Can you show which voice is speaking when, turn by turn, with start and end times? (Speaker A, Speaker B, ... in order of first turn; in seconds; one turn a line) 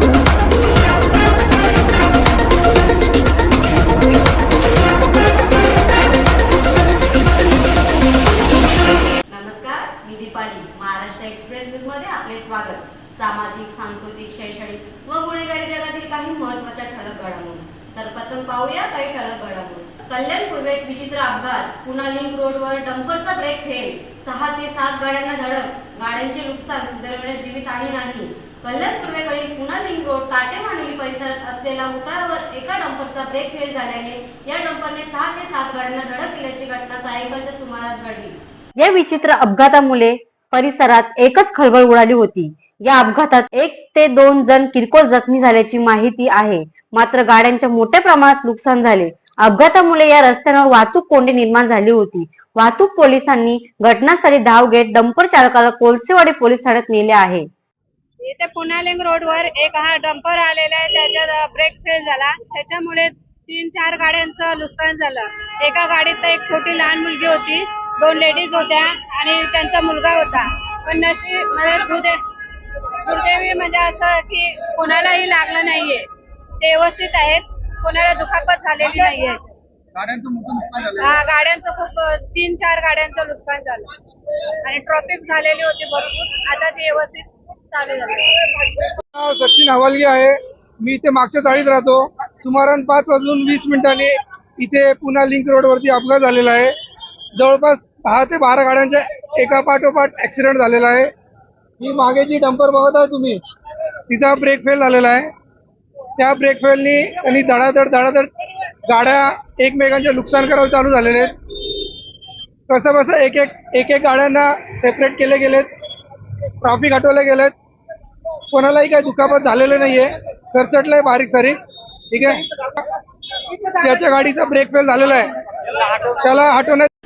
Speaker A: 9.3-38.4
Speaker B: 38.8-57.5
Speaker C: 58.2-72.2
Speaker C: 73.0-76.1
Speaker C: 76.6-79.5
Speaker D: 80.0-80.7
Speaker C: 81.0-83.9
Speaker C: 84.6-88.7
Speaker D: 89.0-96.7
Speaker D: 97.4-101.1
Speaker D: 101.8-103.4
Speaker D: 104.1-105.3
Speaker D: 106.2-108.3
Speaker D: 108.9-111.3
Speaker D: 112.7-115.7
Speaker D: 116.6-117.5
Speaker D: 118.5-121.6
Speaker D: 122.1-122.8
Speaker D: 123.6-126.9